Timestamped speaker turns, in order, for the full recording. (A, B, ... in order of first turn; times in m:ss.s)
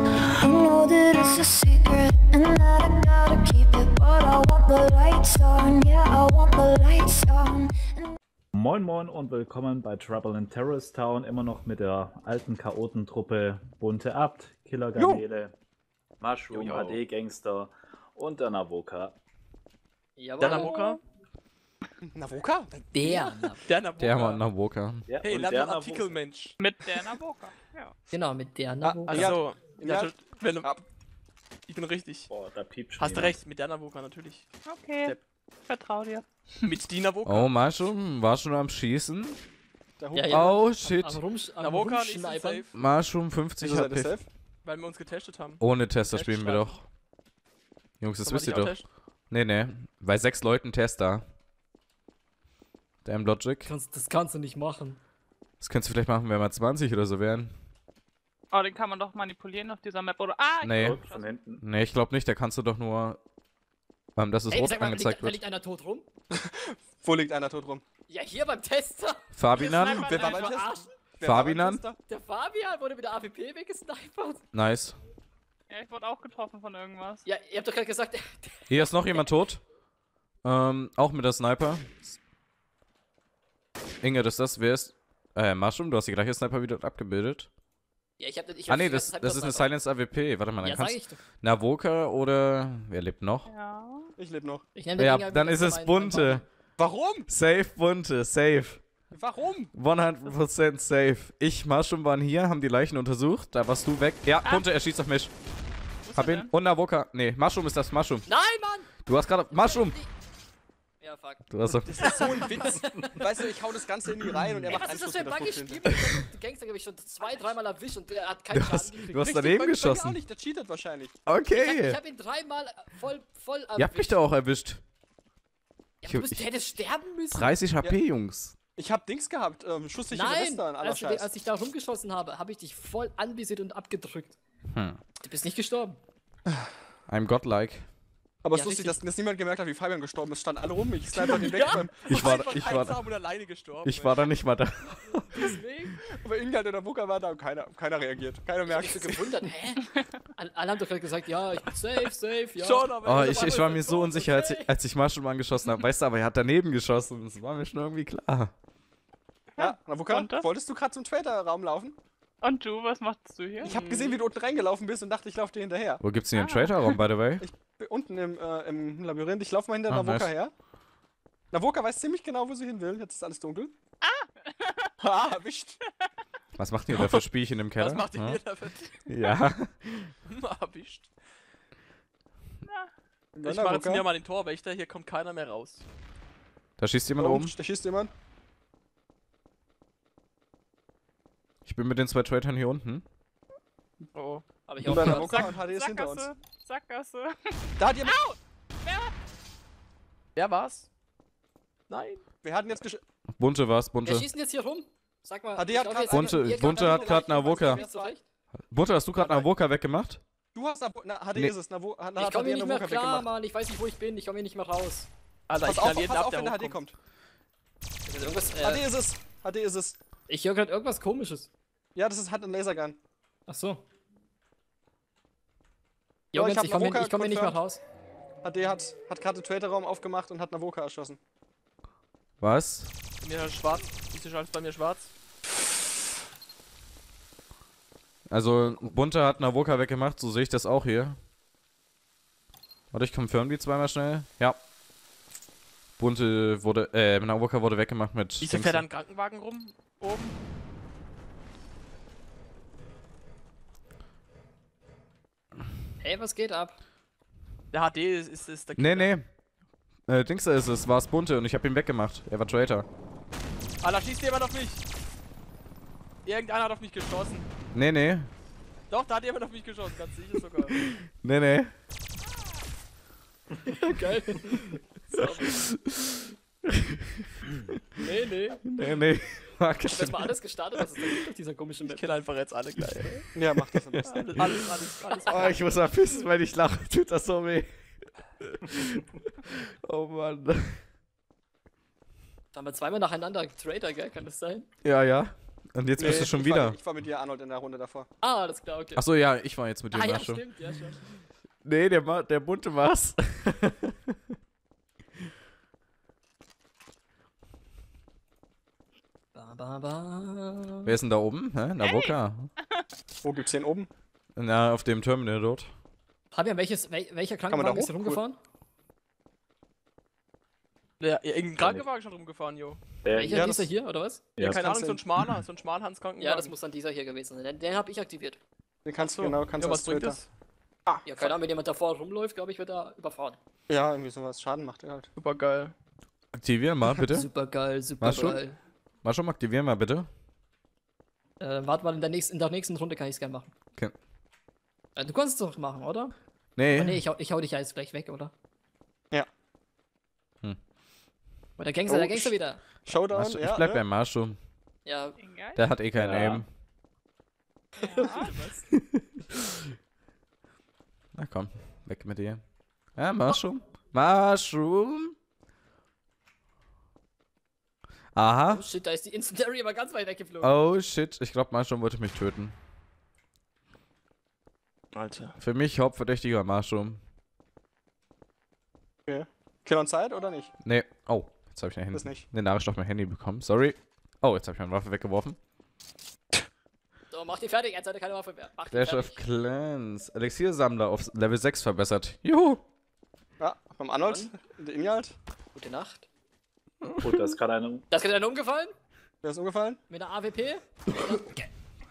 0:00.4-0:08.1 A
0:08.5-0:15.5 B
0:15.0-0:15.2 C
0:16.2-0:19.2 B
0:16.5-0:17.0 D
0:20.2-0:20.8 E
0:20.4-0:21.0 D
0:20.5-0:20.8 F
0:22.1-0:23.3 C
0:22.9-0:23.6 E
0:23.6-0:24.4 D
0:24.0-0:25.1 G
0:25.1-0:26.2 B
0:25.2-0:26.6 D
0:26.6-0:27.9 F
0:28.1-0:29.3 E
0:28.8-0:30.8 C
0:29.1-0:30.7 D
0:31.7-0:32.3 D
0:32.3-0:33.4 B
0:33.0-0:34.4 D
0:34.6-0:35.2 F
0:35.7-0:36.7 F
0:36.6-0:37.5 D
0:37.2-0:39.4 G
0:40.0-0:40.6 C
0:40.1-0:42.7 E
0:40.3-0:41.2 G
0:41.6-0:42.7 D
0:42.7-0:44.2 G
0:43.6-0:44.2 C
0:44.6-0:46.8 D
0:45.6-0:46.8 G
0:48.0-0:51.2 G
0:48.2-0:48.8 D
0:53.0-0:53.7 G
0:53.6-0:55.0 E
0:55.6-0:57.5 G
0:58.5-1:01.3 F
1:00.6-1:01.0 G
1:00.7-1:01.6 B
1:01.6-1:03.2 G
1:04.2-1:05.4 G
1:04.5-1:06.0 E
1:06.3-1:07.8 C
1:08.1-1:10.9 E
1:09.3-1:10.1 G
1:09.6-1:12.0 C
1:09.7-1:10.5 F
1:11.2-1:11.8 G
1:12.1-1:14.4 E
1:14.5-1:15.0 G
1:15.7-1:17.2 F
1:17.2-1:19.3 E
1:18.7-1:19.6 G
1:20.4-1:22.2 G
1:24.0-1:27.5 G
1:28.2-1:29.7 E
1:28.7-1:33.5 G
1:30.6-1:31.2 E
1:33.4-1:34.1 F
1:34.2-1:34.6 C
1:34.8-1:36.4 E
1:35.0-1:36.4 G
1:36.8-1:37.3 C
1:37.3-1:38.8 G
1:39.1-1:39.7 C
1:39.7-1:45.3 G
1:46.0-1:46.5 F
1:46.1-1:48.3 G
1:48.2-1:48.9 E
1:49.0-1:50.0 G
1:49.5-1:50.1 E
1:51.0-1:51.4 E
1:51.5-1:52.4 G
1:51.9-1:52.5 D
1:52.0-1:55.8 C
1:52.0-1:53.2 E
1:54.7-1:59.3 E
1:58.5-2:00.2 G
1:59.2-2:01.1 C
2:01.3-2:02.0 G
2:01.5-2:04.2 E
2:03.8-2:04.8 G
2:06.0-2:07.6 E
2:06.0-2:06.5 G
2:07.3-2:08.5 G
2:08.8-2:11.3 C
2:10.1-2:14.4 E
2:14.7-2:15.0 G
2:15.2-2:16.0 E
2:17.1-2:17.9 G
2:18.4-2:22.3 C
2:18.5-2:19.0 E
2:21.1-2:21.9 E
2:22.0-2:24.2 D
2:22.0-2:23.0 G
2:23.8-2:25.5 G
2:25.3-2:26.0 E
2:26.0-2:29.2 C
2:28.7-2:34.7 E
2:32.6-2:33.8 D
2:33.0-2:38.5 G
2:39.6-2:40.5 F
2:39.6-2:42.0 C
2:42.4-2:43.8 F
2:43.6-2:46.0 C
2:43.6-2:44.2 E
2:46.0-2:47.4 G
2:46.3-2:46.9 F
2:47.4-2:50.5 C
2:49.9-2:50.3 G
2:51.5-2:53.7 C
2:54.0-2:54.9 F
2:55.0-2:55.8 C
2:56.6-2:58.4 G
2:56.9-2:57.2 D
2:57.8-2:59.1 D
2:59.1-3:00.1 G
3:00.2-3:01.1 D
3:02.6-3:02.9 F
3:03.3-3:04.0 C
3:03.4-3:05.8 D
3:06.8-3:07.6 G
3:07.2-3:08.1 C
3:11.6-3:13.0 G
3:14.1-3:14.4 D
3:14.7-3:15.5 E
3:14.8-3:16.3 C
3:15.3-3:19.1 F
3:17.8-3:18.2 C
3:20.4-3:20.9 D
3:21.9-3:22.2 D
3:22.4-3:23.0 C
3:23.3-3:24.3 G
3:24.0-3:28.2 E
3:25.6-3:28.1 C
3:26.1-3:27.8 G
3:28.7-3:30.2 G
3:29.2-3:29.5 E
3:30.5-3:33.3 C
3:32.2-3:35.1 E
3:35.5-3:36.8 D
3:35.6-3:36.9 C
3:38.0-3:38.8 E
3:38.5-3:40.0 C
3:40.3-3:41.5 E
3:41.9-3:43.0 C
3:43.5-3:43.8 E
3:46.3-3:47.8 E
3:46.3-3:47.6 C
3:48.4-3:51.2 C
3:52.4-3:52.9 G
3:53.2-3:55.1 D
3:58.3-4:01.2 G
4:02.9-4:04.6 G
4:06.0-4:08.8 G
4:08.4-4:10.4 D
4:16.0-4:16.8 E
4:17.7-4:19.1 D
4:18.8-4:19.3 G
4:20.1-4:22.8 G
4:23.8-4:24.8 D
4:26.2-4:27.5 D
4:27.7-4:28.3 G
4:28.9-4:30.8 D
4:30.8-4:31.7 G
4:33.7-4:35.6 E
4:35.2-4:37.2 G
4:38.0-4:38.6 E
4:38.7-4:40.4 G
4:39.8-4:42.0 E
4:41.8-4:43.2 D
4:43.3-4:44.3 C
4:43.6-4:44.6 G
4:44.1-4:45.2 D
4:45.0-4:45.7 E
4:45.2-4:47.7 G
4:48.4-4:50.8 G
4:52.5-4:54.7 E
4:54.8-4:56.8 G
4:56.0-4:58.1 C
4:58.2-4:59.0 E
4:59.0-5:00.4 G
4:59.9-5:01.0 E
5:01.6-5:03.9 G
5:09.3-5:11.0 E
5:10.8-5:12.5 G
5:11.8-5:12.8 F
5:13.2-5:13.9 C
5:14.4-5:15.7 G
5:16.3-5:18.4 E
5:17.5-5:18.2 C
5:21.0-5:22.8 D
5:21.6-5:21.8 B
5:23.0-5:23.5 B
5:23.1-5:24.2 E
5:23.3-5:23.7 C
5:24.4-5:25.4 B
5:24.4-5:26.5 D
5:24.4-5:25.0 C
5:26.2-5:28.4 E
5:28.8-5:30.2 C
5:29.0-5:30.3 D
5:30.9-5:31.4 C
5:31.0-5:33.4 E
5:33.7-5:35.1 C
5:35.1-5:35.7 D
5:36.3-5:37.3 G
5:37.0-5:38.6 E
5:38.0-5:38.4 G
5:39.0-5:40.1 G
5:41.4-5:43.5 E
5:45.0-5:46.1 E
5:46.6-5:47.0 G
5:46.7-5:48.3 E
5:51.6-5:52.6 E
5:51.9-5:53.8 C
5:53.1-5:54.4 G
5:54.8-5:55.2 E
5:55.2-5:55.7 F
5:55.5-5:56.5 G
5:55.9-5:56.4 B
5:57.8-5:58.4 F
5:57.9-5:58.6 E
6:01.1-6:02.4 G
6:02.9-6:05.1 G
6:08.1-6:08.6 G
6:08.5-6:10.6 E
6:10.4-6:12.6 G
6:14.9-6:15.3 D
6:15.4-6:17.0 G
6:19.1-6:20.5 C
6:20.6-6:25.4 G
6:21.9-6:22.3 C
6:27.1-6:29.2 E
6:28.7-6:32.6 G
6:33.4-6:35.2 C
6:34.0-6:34.3 E
6:35.5-6:36.1 E
6:37.0-6:37.8 B
6:37.0-6:37.3 G
6:37.9-6:38.7 E
6:39.2-6:39.8 C
6:39.9-6:41.5 E